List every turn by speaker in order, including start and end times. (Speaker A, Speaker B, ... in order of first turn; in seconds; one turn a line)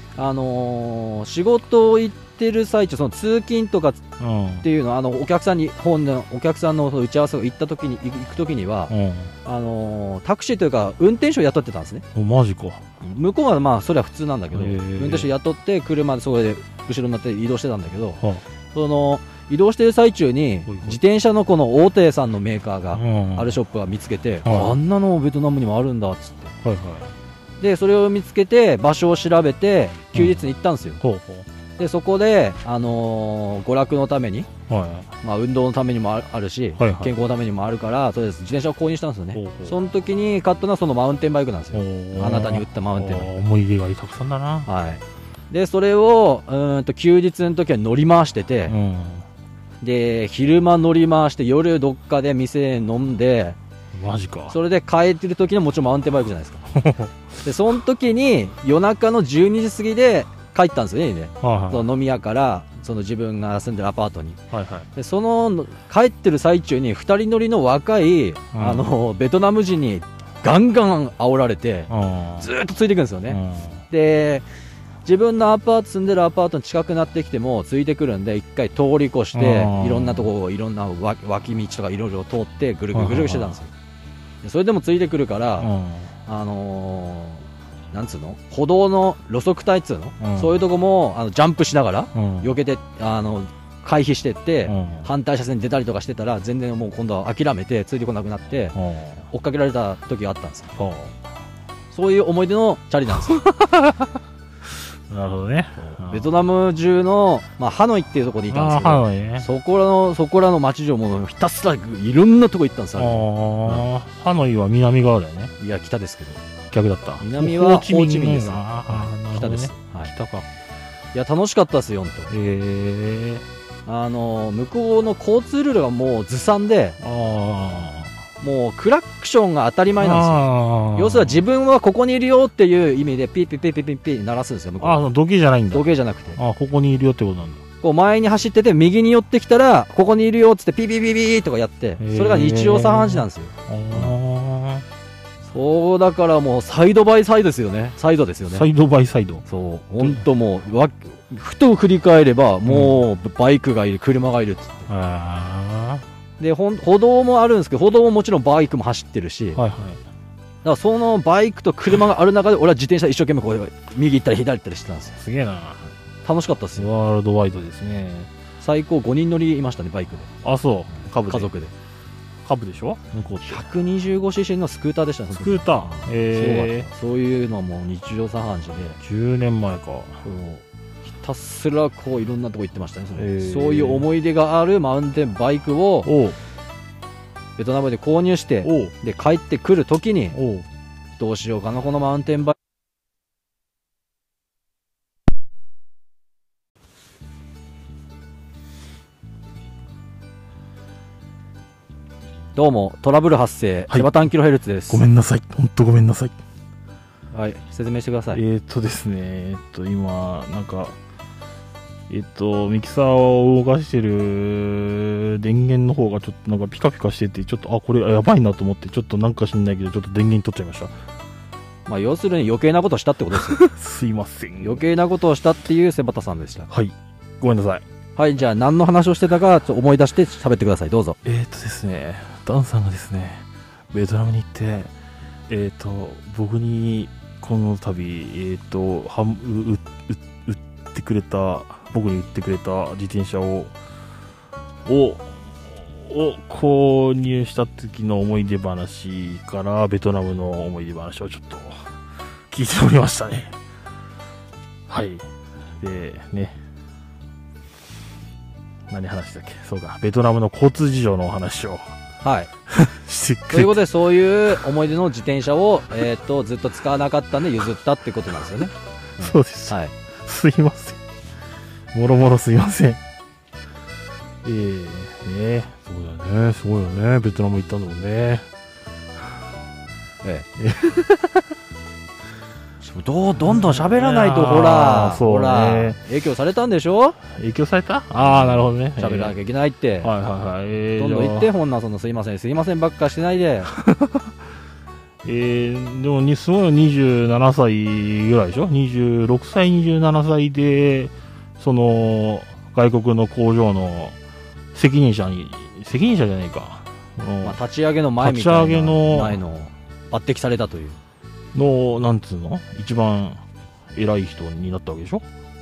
Speaker A: 0.2-4.0
Speaker B: 4.2-4.7
Speaker A: 4.6-12.1
Speaker B: 8.9-9.3
Speaker B: 12.2-12.8
Speaker A: 13.0-18.2
Speaker B: 14.5-15.3
Speaker A: 18.7-26.5
Speaker B: 20.7-21.0
Speaker B: 22.9-23.6
Speaker B: 24.4-24.8
Speaker B: 26.6-27.1
Speaker A: 27.6-31.0
Speaker B: 30.1-30.5
Speaker B: 31.0-31.5
Speaker A: 31.8-34.5
Speaker B: 34.7-35.1
Speaker A: 35.2-43.3
Speaker B: 36.8-37.1
Speaker B: 39.4-39.8
Speaker B: 41.7-44.7
Speaker A: 44.7-48.8
Speaker B: 48.7-49.2
Speaker A: 49.8-53.6
Speaker B: 53.9-54.6
Speaker A: 54.5-56.8
Speaker B: 56.7-57.1
Speaker A: 57.4-64.4
Speaker B: 61.4-61.9
Speaker B: 64.5-64.9
Speaker A: 65.0-74.5
Speaker B: 68.5-68.9
Speaker B: 71.9-72.5
Speaker B: 73.3-73.8
Speaker A: 75.0-83.7
Speaker B: 79.3-80.3
Speaker B: 82.9-83.6
Speaker A: 84.4-85.7
Speaker B: 85.6-86.1
Speaker A: 86.3-98.8
Speaker B: 90.2-90.6
Speaker B: 92.2-92.6
Speaker B: 94.7-95.1
Speaker B: 98.8-99.2
Speaker A: 99.3-100.8
Speaker B: 100.8-101.2
Speaker A: 101.9-103.4
Speaker B: 103.3-104.2
Speaker B: 104.9-106.3
Speaker A: 105.8-113.9
Speaker B: 108.5-109.5
Speaker B: 113.0-115.5
Speaker A: 115.6-116.4
Speaker B: 116.7-120.5
Speaker A: 117.2-120.1
Speaker A: 121.1-122.3
Speaker B: 122.3-123.5
Speaker A: 123.9-127.0
Speaker B: 127.0-128.1
Speaker A: 128.4-135.0
Speaker B: 130.0-131.4
Speaker B: 134.8-137.6
Speaker A: 135.7-136.4
Speaker A: 137.8-144.2
Speaker B: 142.0-144.8
Speaker A: 145.5-148.7
Speaker B: 148.5-149.4
Speaker A: 149.5-154.9
Speaker B: 152.7-153.0
Speaker B: 154.9-156.1
Speaker A: 156.4-159.6
Speaker B: 159.6-160.0
Speaker A: 160.6-165.2
Speaker B: 165.2-165.9
Speaker A: 166.2-166.9
Speaker B: 166.8-168.3
Speaker A: 168.6-170.3
Speaker B: 170.4-171.5
Speaker A: 171.0-171.7
Speaker B: 172.4-173.7
Speaker A: 173.4-179.0
Speaker B: 175.3-176.9
Speaker B: 179.0-180.2
Speaker A: 180.2-186.1
Speaker B: 183.2-184.1
Speaker B: 186.1-186.4
Speaker A: 187.6-190.4
Speaker B: 188.6-188.9
Speaker B: 190.3-190.7
Speaker A: 191.2-192.6
Speaker A: 202.6-205.0
Speaker B: 203.9-204.2
Speaker B: 204.9-206.4
Speaker A: 207.3-208.4
Speaker B: 208.3-211.0
Speaker B: 212.1-220.9
Speaker A: 221.9-223.6
Speaker B: 223.3-224.8
Speaker A: 224.6-226.7
Speaker B: 226.7-227.8
Speaker A: 228.2-231.2
Speaker B: 231.2-234.9
Speaker B: 235.5-243.7
Speaker B: 244.8-251.9
Speaker B: 252.5-253.6
Speaker B: 254.9-255.3
Speaker B: 255.8-256.6
Speaker B: 258.9-261.9
Speaker A: 262.2-262.5
Speaker B: 262.7-263.8
Speaker A: 263.5-269.9
Speaker B: 269.2-271.0
Speaker B: 271.9-273.0
Speaker B: 274.4-278.5
Speaker B: 280.6-281.5
Speaker A: 282.8-287.2
Speaker B: 283.5-286.0
Speaker B: 287.3-289.4
Speaker A: 288.2-290.1
Speaker B: 290.0-291.5
Speaker A: 291.0-293.7
Speaker B: 293.7-294.3
Speaker B: 295.2-304.2
Speaker B: 304.7-307.6
Speaker A: 307.4-311.0
Speaker B: 308.2-309.4
Speaker B: 311.5-313.4
Speaker B: 313.9-315.2